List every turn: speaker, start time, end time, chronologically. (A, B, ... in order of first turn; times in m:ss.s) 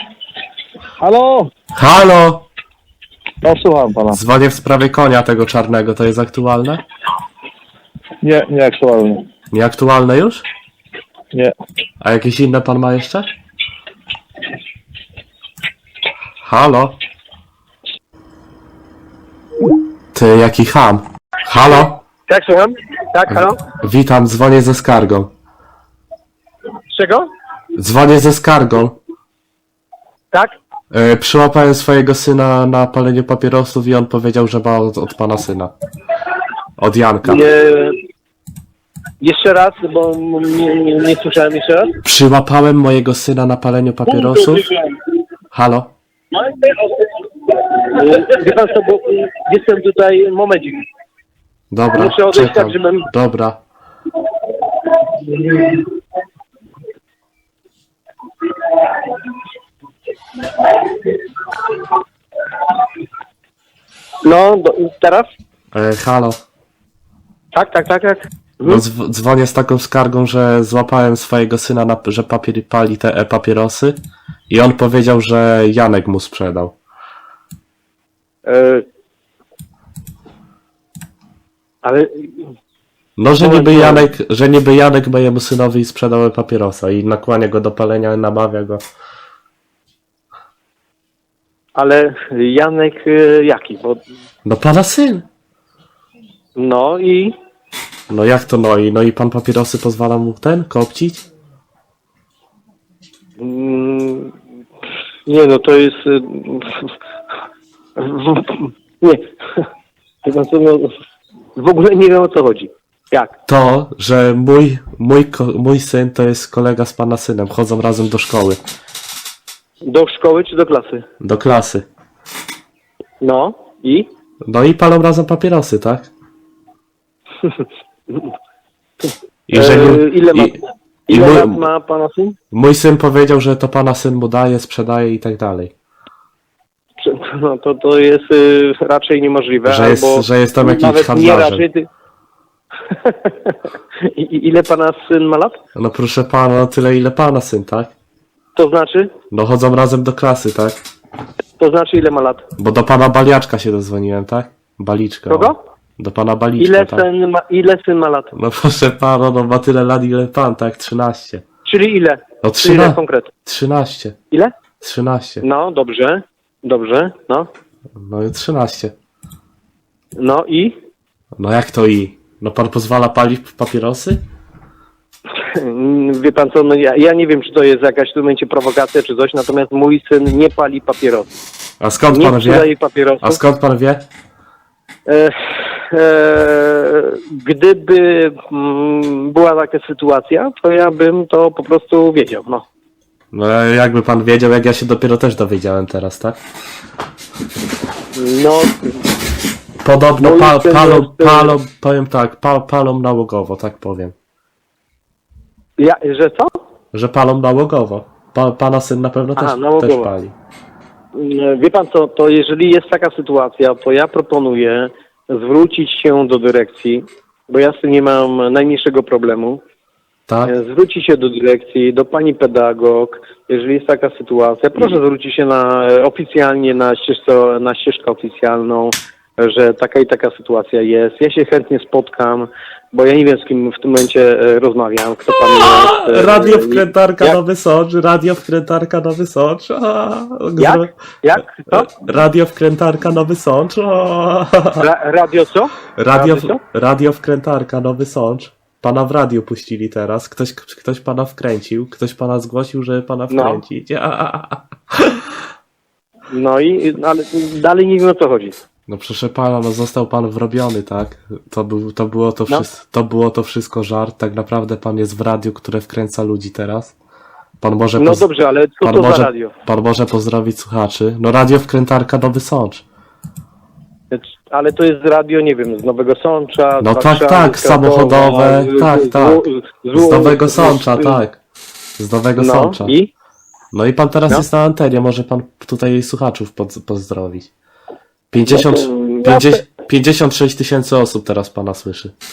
0:01.0-0:01.5 A
0:01.8-0:02.5 B
0:03.4-0:04.2 A
0:04.1-0:06.8 B
0:08.2-0:09.2 A
0:09.5-0:10.4 B
0:12.0-0:13.3 B
0:16.4-0:17.0 B
0:20.1-0:22.0 B
0:22.3-0:23.6 C
0:23.3-0:25.3 B
0:26.9-0:27.3 C
0:27.7-0:29.0 B
0:30.9-0:35.7 B
0:36.8-0:37.5 B
0:37.2-0:38.0 C
0:39.2-0:41.9 C
0:42.0-0:44.7 B
0:44.1-0:44.9 C
0:45.5-0:45.9 B
0:46.3-0:47.0 C
0:47.6-0:50.8 C
0:51.7-0:53.6 B
0:52.0-0:53.1 C
0:55.1-0:55.8 C
1:04.2-1:05.3 C
1:05.7-1:06.4 B
1:07.5-1:08.8 C
1:08.6-1:14.0 B
1:14.5-1:16.7 B
1:18.4-1:18.8 C
1:21.8-1:22.5 C
1:23.2-1:28.8 B
1:23.4-1:24.1 C
1:31.8-1:34.0 C
1:34.4-1:35.2 B
1:36.6-1:37.3 C
1:38.1-1:41.2 B
1:43.4-1:44.3 C
1:45.2-1:46.9 C
1:48.0-1:49.7 C
1:50.2-1:50.9 C
1:51.6-1:53.3 C
1:53.5-1:58.6 B
1:59.8-2:01.0 C
2:01.2-2:01.9 B
2:03.2-2:04.1 C
2:04.5-2:06.1 B
2:07.4-2:08.3 C
2:09.5-2:11.6 B
2:09.5-2:12.4 C
2:12.5-2:15.7 B
2:17.0-2:21.9 C
2:19.6-2:21.6 B
2:22.9-2:25.6 C
2:25.8-2:27.9 B
2:28.5-2:29.1 C
2:29.3-2:30.8 B
2:31.6-2:32.4 C
2:32.6-2:37.1 B
2:35.3-2:35.6 C
2:36.6-2:38.3 C
2:38.3-2:41.4 B
2:41.6-2:43.3 C
2:42.4-2:44.2 B
2:44.8-2:45.4 B
2:45.4-2:47.5 C
2:48.0-2:48.9 B
2:50.2-2:50.8 C
2:51.4-2:54.2 B
2:55.4-3:01.3 C
3:01.8-3:02.7 B
3:02.1-3:03.4 C
3:03.2-3:04.0 B
3:05.1-3:12.6 C
3:13.3-3:16.4 B
3:18.2-3:19.0 C
3:19.8-3:24.1 B
3:20.2-3:21.6 C
3:25.8-3:26.6 C
3:26.9-3:30.3 B
3:29.4-3:30.1 C
3:31.2-3:39.6 C
3:40.3-3:40.5 B
3:40.4-3:57.4 C
3:55.4-4:00.9 B
4:00.6-4:01.9 C
4:01.6-4:04.8 B
4:04.8-4:06.6 C
4:06.0-4:15.2 B
4:13.3-4:13.6 C
4:16.3-4:18.6 C
4:18.9-4:27.0 B
4:27.6-4:28.3 B
4:28.0-4:29.5 C
4:28.8-4:32.8 B
4:34.1-4:41.2 C
4:36.8-4:41.4 B
4:42.0-4:43.0 B
4:42.4-4:43.1 C
4:43.7-4:47.5 B
4:48.3-4:52.1 B
4:48.5-4:49.6 C